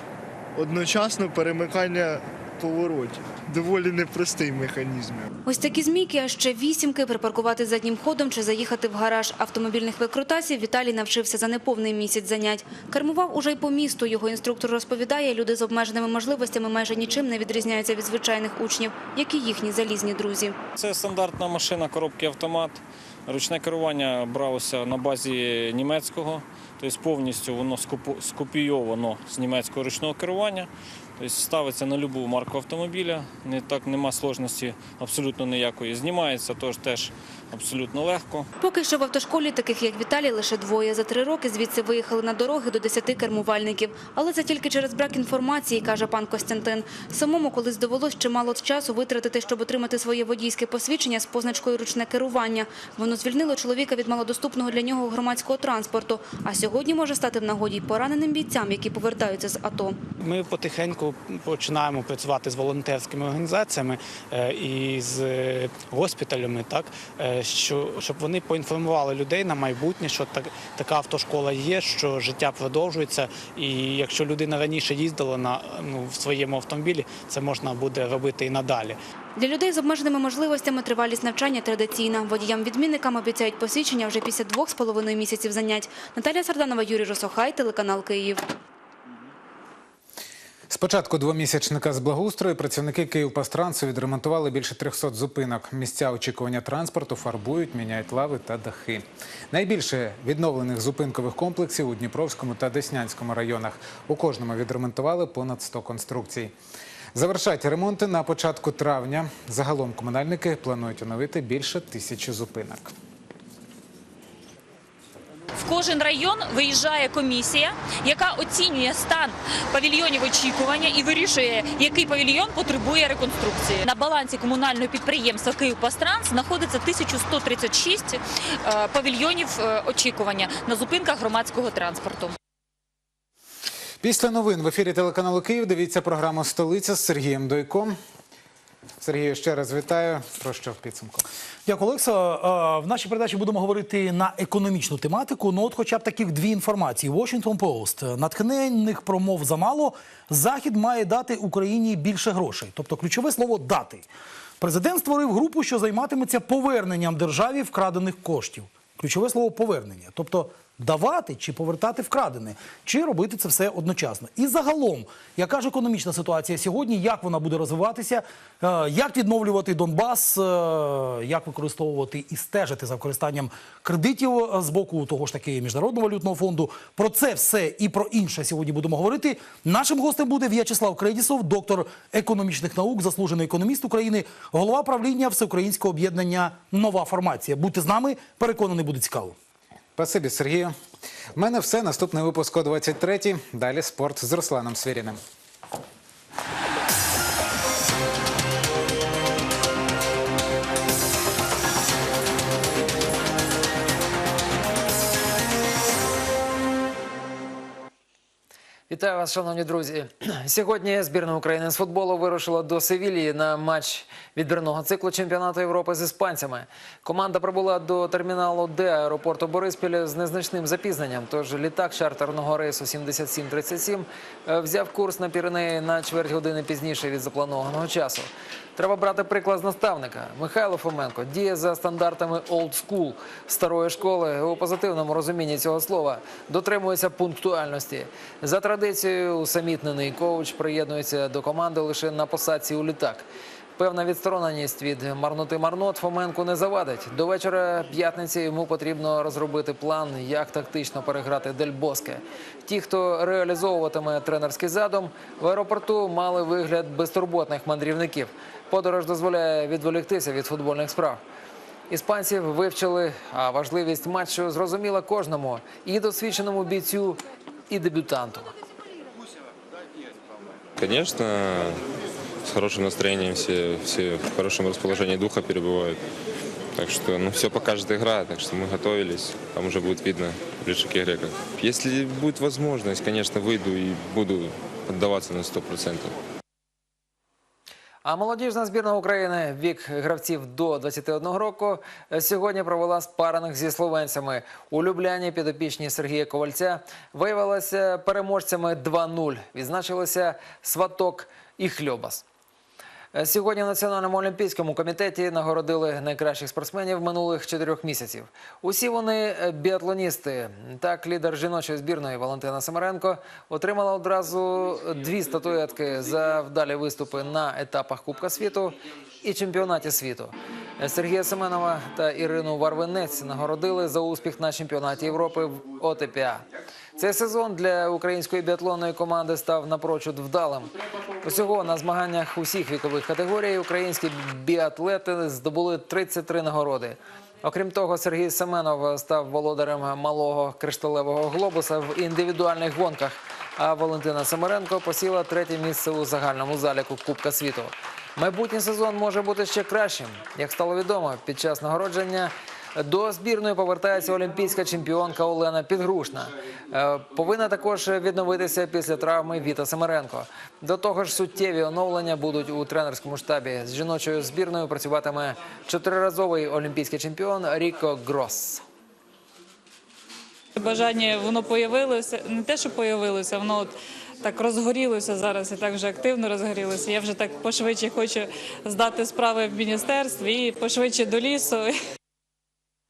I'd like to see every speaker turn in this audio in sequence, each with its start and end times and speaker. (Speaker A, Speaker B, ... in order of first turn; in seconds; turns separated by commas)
Speaker A: 0.5-5.3, Speaker B: 5.4-20.6, Speaker C: 20.8-38.5, Speaker B: 38.6-60.0, Speaker D: 60.2-79.0, Speaker B: 79.3-88.4, Speaker E: 90.7-106.5, Speaker E: 107.1-112.9, Speaker F: 115.6-132.3, Speaker E: 134.0-137.9, Speaker E: 139.0-141.2, Speaker G: 141.7-154.1, Speaker G: 154.6-189.3, Speaker E: 189.9-190.7, Speaker E: 191.3-195.2, Speaker H: 208.9-243.2, Speaker H: 243.8-261.2, Speaker H: 261.9-268.5, Speaker I: 270.8-271.8, Speaker I: 272.4-276.0, Speaker I: 276.7-286.2, Speaker H: 288.0-302.2, Speaker H: 303.1-330.7, Speaker H: 331.2-368.6, Speaker J: 370.6-381.7